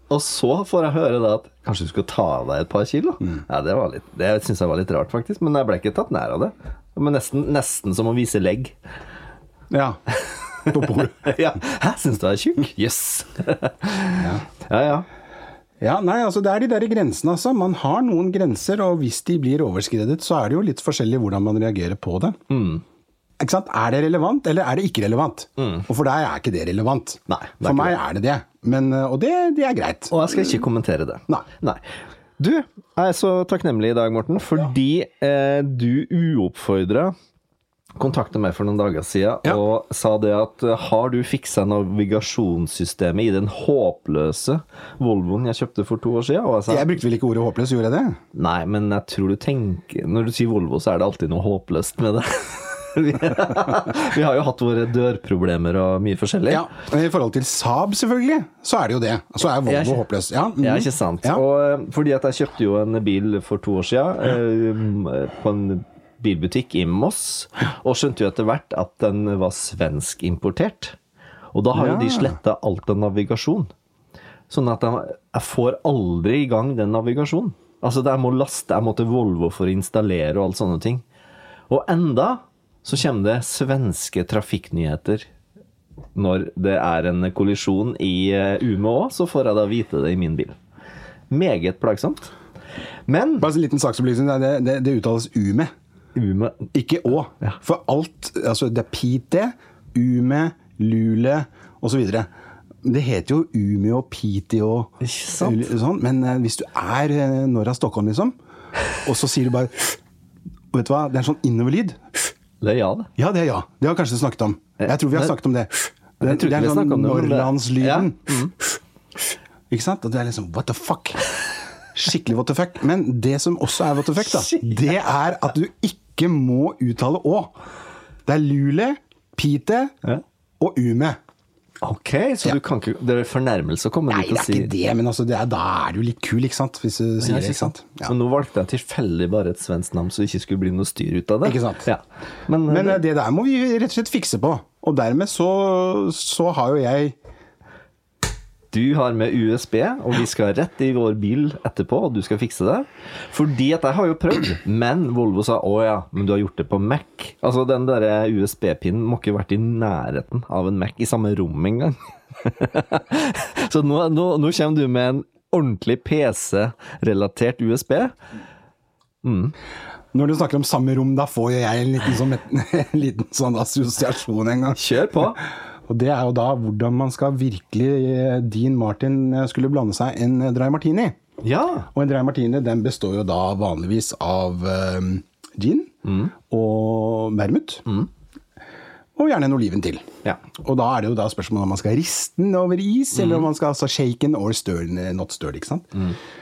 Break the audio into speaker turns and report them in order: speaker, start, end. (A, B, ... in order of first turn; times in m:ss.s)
0:00.1-0:08.8 A
0:09.7-0:10.0 B
0:10.2-0:15.1 A
0:10.7-0:11.4 B
0:14.2-0:14.4 B
0:15.8-0:22.4 B
0:22.5-0:22.8 A
0:23.4-0:30.6 B
0:25.6-0:25.9 A
0:27.3-0:28.0 A
0:30.1-0:31.8 A
0:32.4-0:37.2 A
0:38.0-0:47.0 A
0:46.7-0:48.2 B
0:48.3-0:56.7 A
0:56.5-1:01.4 B
0:59.7-1:00.0 A
1:00.6-1:11.0 A
1:11.5-1:13.7 A
1:11.8-1:12.4 B
1:14.5-1:21.0 A
1:21.7-1:25.3 A
1:26.2-1:30.6 A
1:31.3-1:32.3 A
1:33.1-1:33.5 A
1:33.4-1:35.7 B
1:36.2-1:36.7 A
1:36.7-1:42.3 B
1:42.8-1:48.4 B
1:45.0-1:45.7 A
1:49.0-1:50.0 B
1:50.7-1:52.3 B
1:52.6-1:53.1 A
1:53.2-1:58.8 B
1:54.8-1:55.3 A
1:56.2-1:58.5 A
1:59.7-2:01.3 B
2:01.9-2:07.5 B
2:04.2-2:04.9 A
2:08.3-2:10.0 B
2:10.6-2:11.2 B
2:11.8-2:14.7 A
2:14.1-2:18.1 B
2:17.2-2:23.0 A
2:21.4-2:21.9 B
2:22.7-2:27.2 B
2:28.7-2:48.2 A
2:49.2-2:49.6 A
2:50.1-3:01.2 B
2:54.7-2:55.4 A
3:01.4-3:01.9 A
3:01.9-3:07.8 B
3:06.0-3:06.3 A
3:09.2-3:16.0 B
3:13.2-3:13.5 A